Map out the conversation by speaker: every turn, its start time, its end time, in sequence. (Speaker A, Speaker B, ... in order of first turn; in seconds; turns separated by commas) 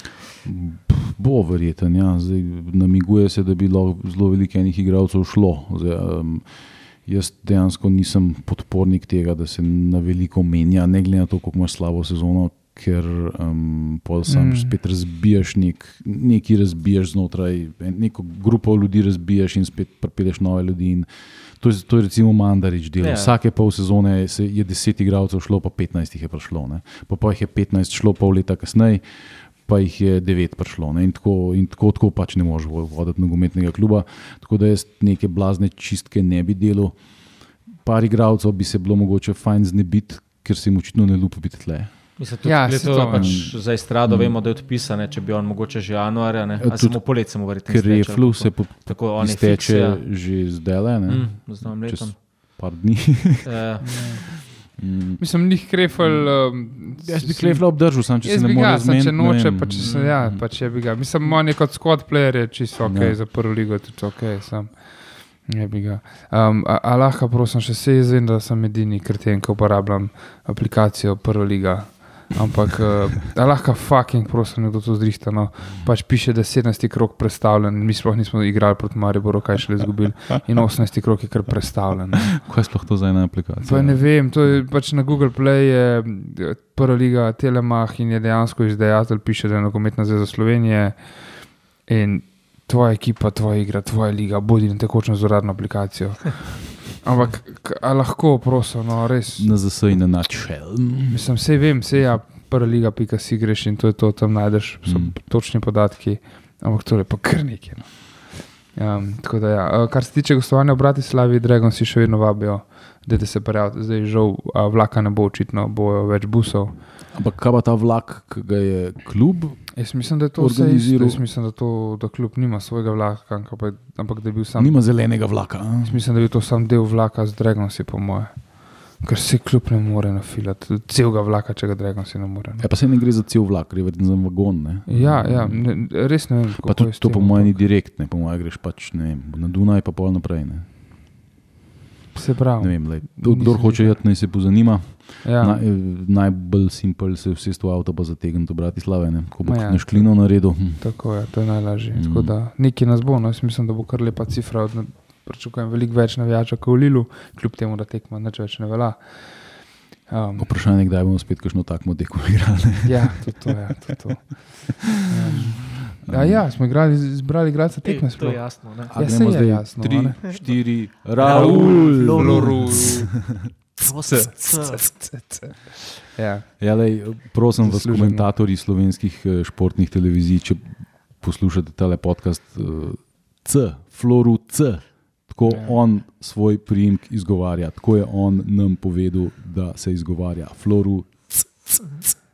Speaker A: 0.4-42.4, Speaker B: 14.3-14.7, Speaker C: 23.0-23.3, Speaker C: 42.2-50.0, Speaker B: 42.4-43.5, Speaker A: 43.1-44.4, Speaker A: 46.6-54.1, Speaker C: 51.1-52.2, Speaker C: 53.4-53.9, Speaker B: 53.8-54.3, Speaker A: 54.8-55.2, Speaker B: 55.2-82.4, Speaker A: 55.9-60.4, Speaker C: 59.8-60.2, Speaker A: 62.8-63.2, Speaker A: 82.4-84.1, Speaker B: 83.6-99.5, Speaker A: 99.4-101.3, Speaker B: 101.1-116.8, Speaker A: 104.8-105.2, Speaker A: 117.1-121.2, Speaker B: 119.7-132.6, Speaker A: 124.5-126.0, Speaker A: 132.6-140.7, Speaker B: 134.8-137.7, Speaker B: 142.1-144.1, Speaker A: 142.6-151.3, Speaker B: 145.2-145.6, Speaker B: 149.4-160.6, Speaker A: 151.9-152.3, Speaker A: 160.4-163.5, Speaker B: 162.8-170.2, Speaker A: 166.1-166.4, Speaker C: 167.8-169.0, Speaker A: 168.9-173.0, Speaker C: 171.2-173.0, Speaker B: 171.2-176.6, Speaker C: 173.8-174.9, Speaker A: 176.6-191.4, Speaker B: 177.5-178.3, Speaker B: 185.4-185.8